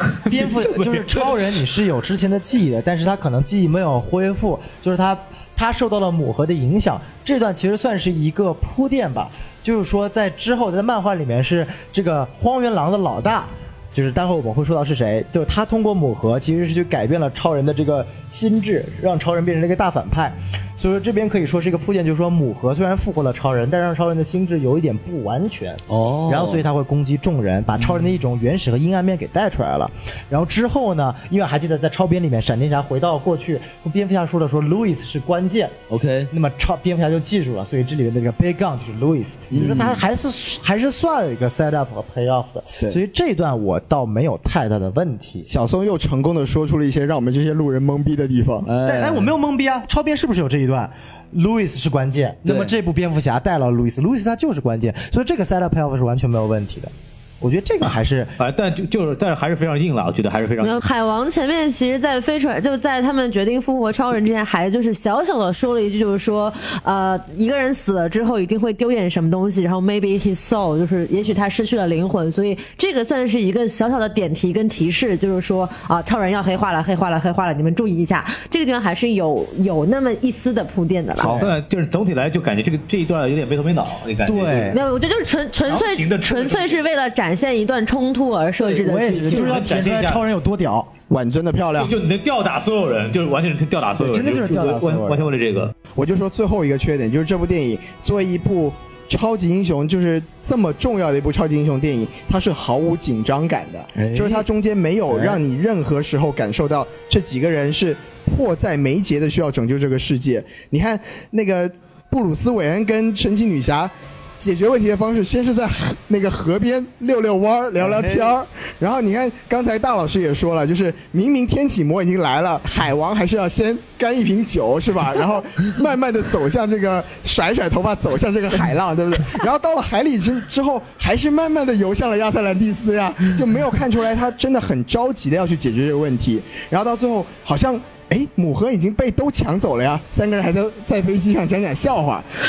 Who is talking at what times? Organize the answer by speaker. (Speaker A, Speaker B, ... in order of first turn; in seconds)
Speaker A: 0.3-35.8, 36.3-45.5, 48.8-58.4, 84.2-84.8, 88.8-90.9, 94.0-95.3, 104.0-104.4
Speaker B: 25.9-26.6, 35.9-36.3, 39.5-40.0, 48.6-49.3, 52.5-52.7, 117.8-118.4
Speaker C: 45.5-48.7, 81.2-81.5, 91.1-92.0, 96.0-142.3
Speaker D: 58.4-60.8, 81.3-84.8, 85.7-86.8, 88.6-90.2, 91.8-95.7
Speaker E: 60.6-81.4, 84.7-89.6